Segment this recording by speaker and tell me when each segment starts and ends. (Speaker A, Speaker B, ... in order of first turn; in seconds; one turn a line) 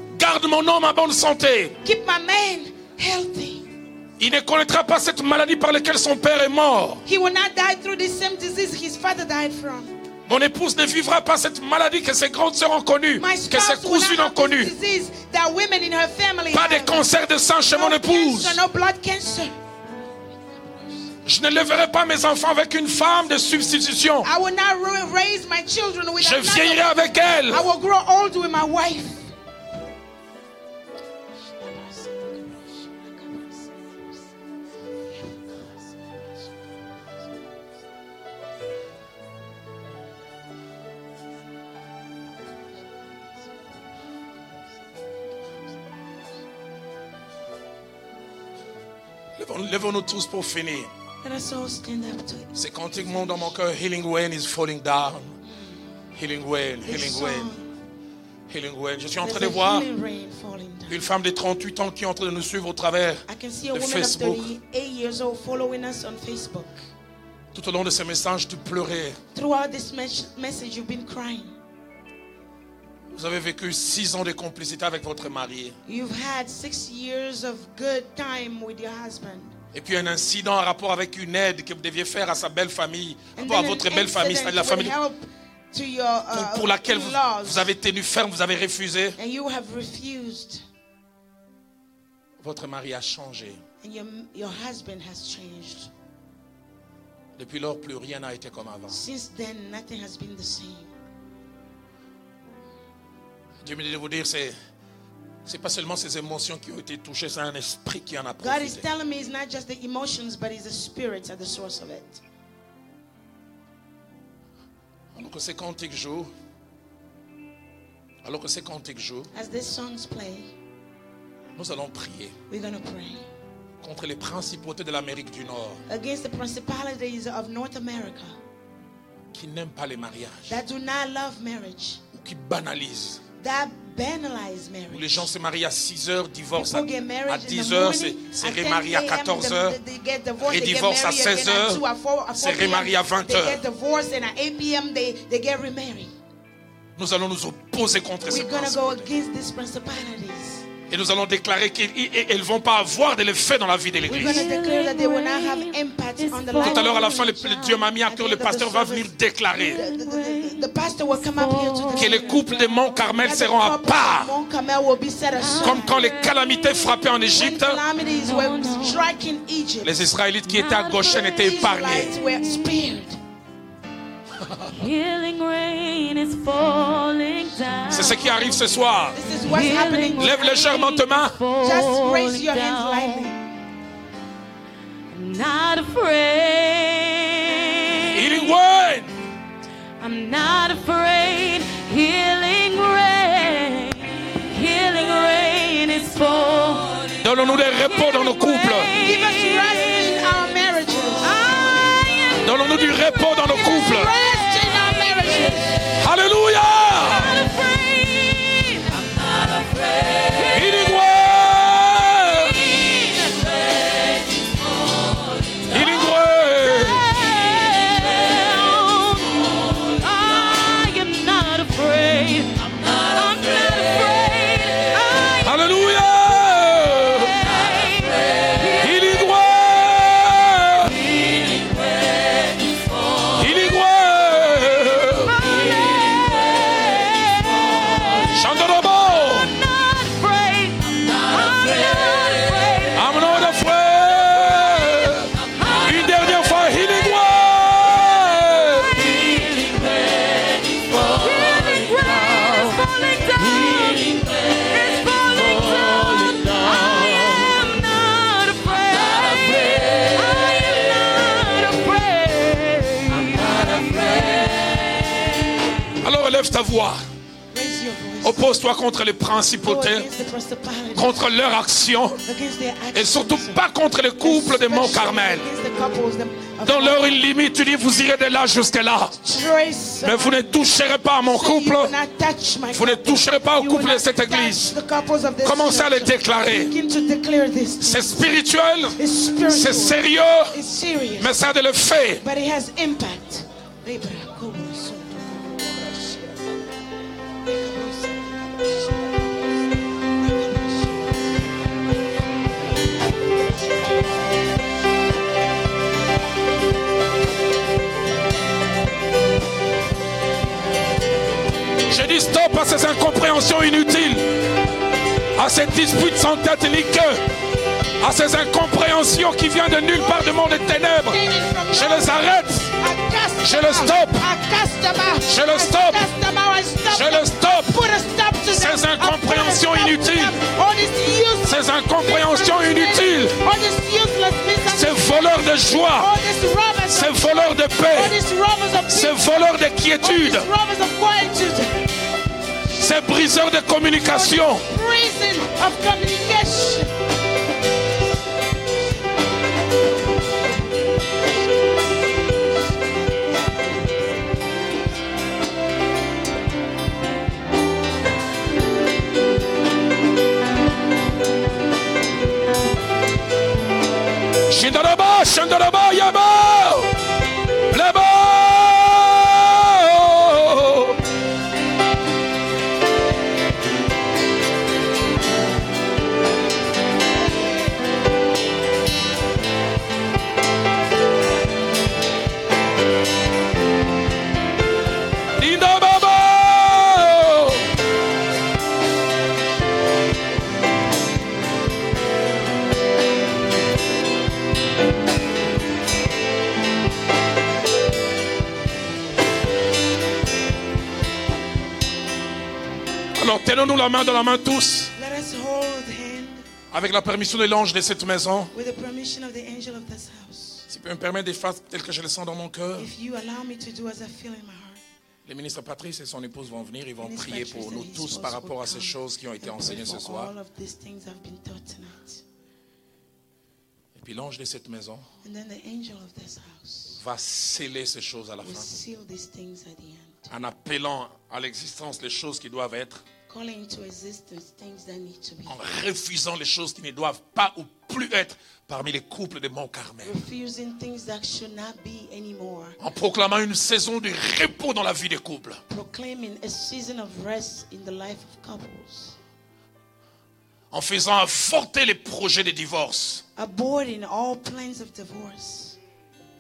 Speaker A: 0.2-1.8
Speaker B: 1.8-3.7
Speaker A: 4.2-7.0
Speaker B: 7.0-9.9
Speaker A: 10.3-14.7
Speaker B: 13.2-17.1
Speaker A: 16.5-18.6
Speaker B: 17.7-19.5
Speaker A: 21.3-24.3
Speaker B: 24.2-29.3
Speaker A: 26.2-27.7
Speaker B: 31.6-33.7
Speaker B: 35.1-35.6
Speaker A: 49.4-50.9
Speaker B: 51.2-53.5
Speaker A: 52.5-55.4
Speaker B: 55.5-55.7
Speaker A: 56.1-57.5
Speaker B: 56.8-57.7
Speaker A: 58.5-59.9
Speaker B: 59.2-61.0
Speaker A: 60.9-64.5
Speaker B: 63.3-66.8
Speaker A: 67.5-69.2
Speaker B: 69.3-71.5
Speaker A: 73.1-75.8
Speaker B: 75.9-79.5
Speaker A: 79.7-85.0
Speaker B: 83.4-87.7
Speaker A: 86.3-89.2
Speaker B: 89.2-90.6
Speaker A: 92.4-93.6
Speaker B: 93.8-95.9
Speaker A: 97.4-99.0
Speaker B: 98.9-100.9
Speaker A: 103.6-104.6
Speaker A: 105.5-108.8
Speaker B: 108.4-112.2
Speaker A: 115.1-116.3
Speaker A: 118.2-119.3
Speaker B: 119.3-120.5
Speaker A: 121.6-122.3
Speaker B: 122.5-123.3
Speaker A: 123.8-125.8
Speaker B: 125.9-128.4
Speaker A: 129.3-130.6
Speaker B: 130.5-132.0
Speaker A: 132.1-133.2
Speaker B: 133.4-135.3
Speaker A: 134.9-139.8
Speaker B: 136.6-146.1
Speaker A: 140.4-141.8
Speaker A: 142.4-143.6
Speaker A: 147.0-149.1
Speaker B: 148.3-150.7
Speaker A: 150.9-154.5
Speaker B: 154.1-166.0
Speaker C: 154.1-157.5
Speaker A: 156.6-159.8
Speaker C: 159.6-162.4
Speaker A: 161.9-164.3
Speaker C: 165.3-167.1
Speaker A: 165.6-167.8
Speaker B: 167.3-170.1
Speaker C: 168.0-169.1
Speaker A: 169.8-172.1
Speaker C: 170.5-172.8
Speaker B: 171.4-173.2
Speaker C: 174.8-183.3
Speaker A: 177.9-179.2
Speaker B: 179.1-180.8
Speaker A: 180.2-181.4
Speaker B: 181.6-183.4
Speaker C: 185.1-188.6
Speaker A: 188.1-189.1
Speaker C: 190.0-200.2
Speaker A: 197.2-198.9
Speaker B: 199.0-201.4
Speaker C: 201.2-205.8
Speaker A: 202.4-204.1
Speaker B: 203.5-205.8
Speaker A: 206.0-207.4
Speaker C: 207.1-210.9
Speaker A: 210.5-212.6
Speaker C: 212.4-225.6
Speaker A: 215.7-217.1
Speaker A: 225.4-227.4
Speaker C: 227.2-229.2
Speaker A: 228.8-230.9
Speaker C: 230.8-233.5
Speaker A: 233.4-235.3
Speaker C: 235.2-238.4
Speaker A: 238.3-239.5
Speaker C: 239.2-243.4
Speaker A: 242.9-245.3
Speaker C: 245.4-265.6
Speaker A: 245.8-249.0
Speaker A: 266.0-267.0
Speaker B: 267.5-268.5
Speaker A: 268.2-270.1
Speaker B: 269.6-271.3
Speaker A: 271.0-272.2
Speaker B: 272.2-273.6
Speaker A: 272.9-275.5
Speaker B: 274.2-277.2
Speaker A: 276.6-279.2
Speaker B: 279.2-280.7
Speaker A: 280.0-281.9
Speaker B: 281.2-288.4
Speaker A: 282.7-284.7
Speaker A: 285.4-286.7
Speaker A: 287.8-290.5
Speaker B: 289.0-290.0
Speaker B: 290.5-291.3
Speaker A: 291.2-292.2
Speaker B: 292.2-296.4
Speaker B: 297.5-299.3
Speaker B: 300.2-301.1
Speaker A: 311.9-314.4
Speaker A: 315.4-317.2
Speaker A: 318.0-322.7
Speaker B: 319.9-341.7
Speaker A: 323.4-324.3
Speaker A: 325.3-326.1
Speaker A: 326.9-327.8
Speaker A: 328.5-330.4
Speaker A: 331.5-333.4
Speaker A: 334.7-336.1
Speaker A: 336.9-338.2
Speaker A: 338.9-340.5
Speaker A: 342.8-344.7
Speaker B: 344.0-346.9
Speaker A: 364.5-366.9
Speaker A: 367.7-371.0
Speaker A: 385.4-387.7
Speaker A: 403.2-404.9
Speaker B: 405.0-406.4
Speaker A: 406.7-408.5
Speaker B: 408.5-410.7
Speaker A: 410.7-412.9
Speaker B: 412.8-414.8
Speaker A: 415.3-420.3
Speaker B: 417.0-422.2
Speaker A: 423.9-425.1
Speaker B: 425.2-427.0
Speaker A: 427.0-428.7
Speaker B: 428.4-430.3
Speaker A: 430.3-433.0
Speaker B: 433.3-435.6
Speaker A: 435.5-440.2
Speaker B: 440.0-442.8
Speaker A: 442.8-445.6
Speaker B: 445.7-449.2
Speaker A: 450.7-453.2
Speaker B: 453.4-455.8